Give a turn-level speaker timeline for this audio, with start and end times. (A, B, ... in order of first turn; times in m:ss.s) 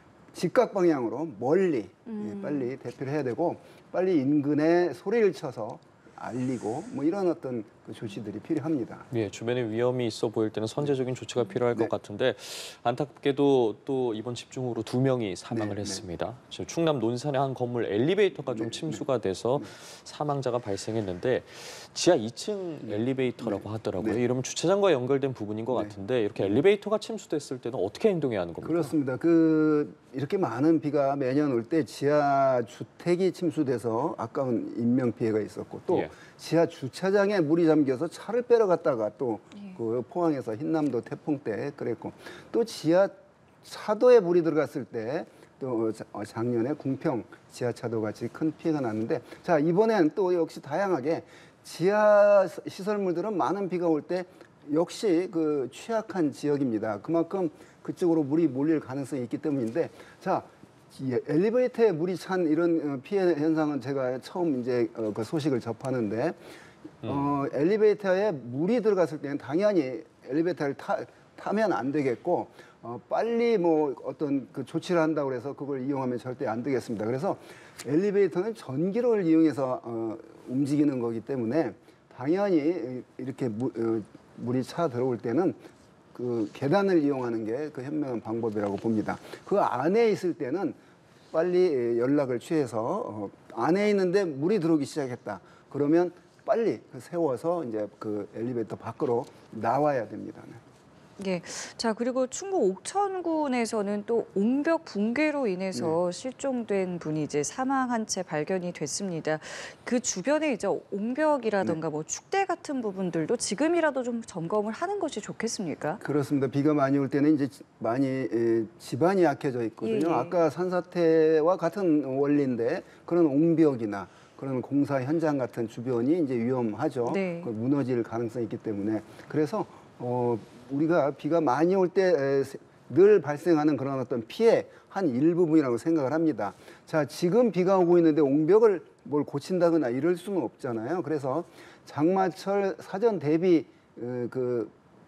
0:00.3-0:09.1 A
0:02.0-0:02.7 B
0:09.1-0:28.9 C
0:15.5-0:16.0 A
0:18.4-0:19.7 A
0:22.8-0:24.2 A
0:25.7-0:25.9 A
0:28.6-1:06.4 A
0:39.5-0:39.8 B
1:07.0-1:25.6 A
1:07.0-1:07.3 C
1:26.1-1:30.8 A
1:31.3-1:40.6 A
1:41.2-1:56.0 B
1:56.0-2:24.7 A
1:59.8-2:00.4 B
2:07.0-2:07.5 B